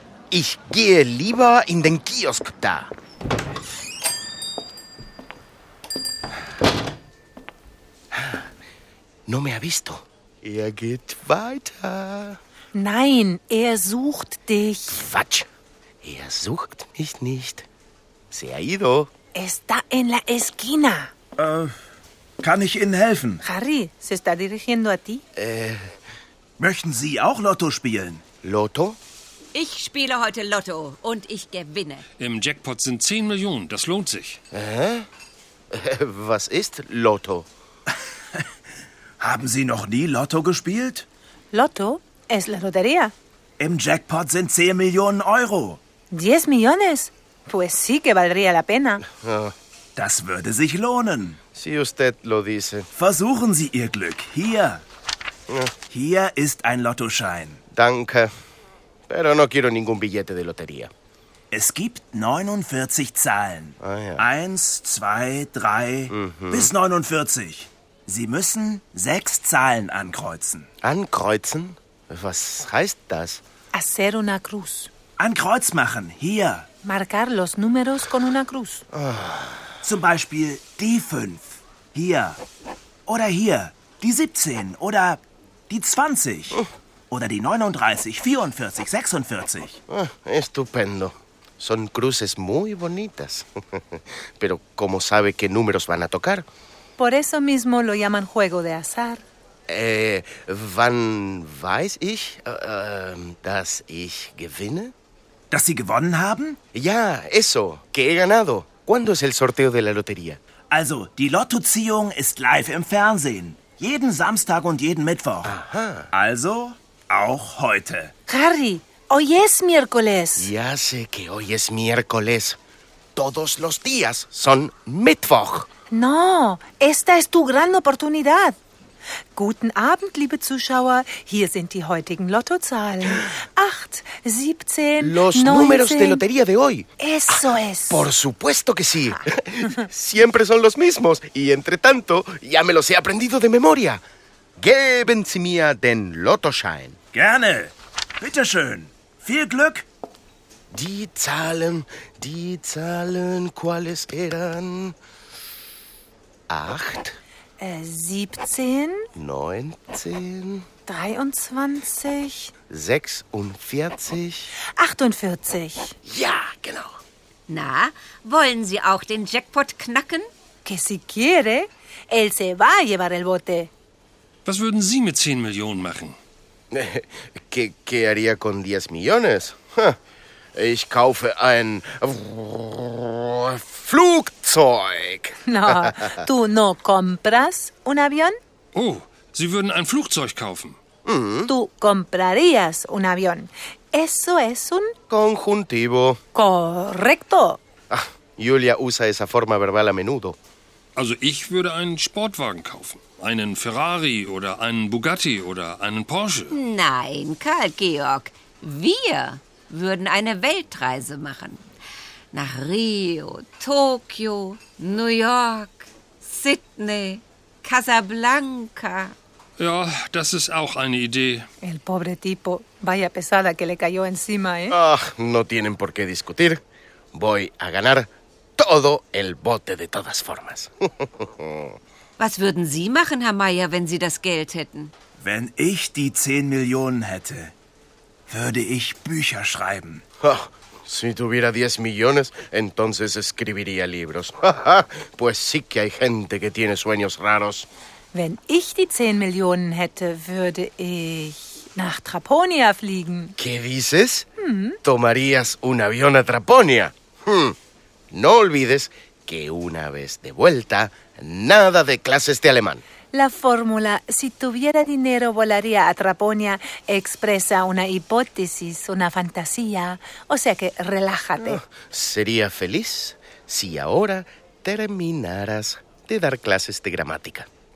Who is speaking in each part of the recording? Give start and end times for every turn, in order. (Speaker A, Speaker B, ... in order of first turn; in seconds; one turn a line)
Speaker A: 0.3-2.9
Speaker A: 8.1-8.4
Speaker A: 9.3-12.4
Speaker B: 12.7-15.0
Speaker A: 14.9-15.5
Speaker A: 16.0-17.6
Speaker A: 18.3-19.1
Speaker B: 19.3-21.1
Speaker C: 21.4-21.7
Speaker C: 22.4-23.4
Speaker B: 23.4-25.2
Speaker A: 25.4-25.9
Speaker C: 26.6-28.2
Speaker A: 28.4-29.0
Speaker D: 29.5-32.0
Speaker E: 32.2-34.4
Speaker A: 34.5-35.0
Speaker A: 35.7-37.5
Speaker C: 39.2-41.0
Speaker B: 41.5-43.1
Speaker C: 43.6-45.8
Speaker B: 46.1-49.0
Speaker A: 49.1-49.5
Speaker C: 50.0-51.4
Speaker A: 51.5-52.9
Speaker C: 52.9-54.8
Speaker C: 55.9-57.6
Speaker A: 57.7-58.3
Speaker A: 59.1-60.9
Speaker C: 61.5-70.7
Speaker A: 63.8-64.2
Speaker A: 66.1-66.7
Speaker A: 70.8-73.4
Speaker B: 73.7-74.9
Speaker C: 75.2-76.7
Speaker B: 76.8-78.8
Speaker A: 78.9-79.6
Speaker C: 79.8-82.4
Speaker C: 83.1-89.8
Speaker A: 89.9-96.5
Speaker B: 97.0-99.2
Speaker A: 99.7-104.9
Speaker C: 105.5-106.6
Speaker A: 106.7-110.4
Speaker C: 110.7-115.5
Speaker A: 115.4-116.1
Speaker C: 116.1-118.1
Speaker B: 118.3-120.5
Speaker A: 120.4-122.6
Speaker A: 123.2-125.7
Speaker B: 125.9-128.6
Speaker B: 129.3-136.2
Speaker A: 135.0-144.0
Speaker B: 137.0-138.1
Speaker A: 144.6-147.0
Speaker C: 147.1-149.8
Speaker A: 150.7-154.9
Speaker A: 156.5-157.2
Speaker B: 157.6-159.1
Speaker A: 159.1-160.6
Speaker B: 160.9-162.5
Speaker A: 162.7-164.5
Speaker B: 164.8-165.9
Speaker A: 166.0-166.9
Speaker D: 167.5-170.3
Speaker B: 170.6-173.7
Speaker E: 174.4-176.2
Speaker A: 176.7-179.9
Speaker A: 180.5-185.9
Speaker B: 185.4-188.3
Speaker E: 188.7-190.8
Speaker A: 191.0-191.5
Speaker B: 191.5-194.9
Speaker A: 195.1-196.2
Speaker B: 196.3-197.6
Speaker A: 197.9-200.4
Speaker E: 200.9-206.6
Speaker D: 206.5-211.6
Speaker D: 212.3-219.1
Speaker E: 219.6-221.5
Speaker B: 221.6-224.8
Speaker A: 224.7-226.6
Speaker A: 227.1-231.7
Speaker D: 232.2-234.9
Speaker C: 235.2-237.5
Speaker C: 238.3-240.0
Speaker A: 240.2-247.7
Speaker B: 248.1-253.3
Speaker A: 253.4-254.3
Speaker B: 254.4-254.8
Speaker A: 254.8-257.5
Speaker A: 258.1-262.8
Speaker B: 263.1-271.6
Speaker A: 271.4-277.5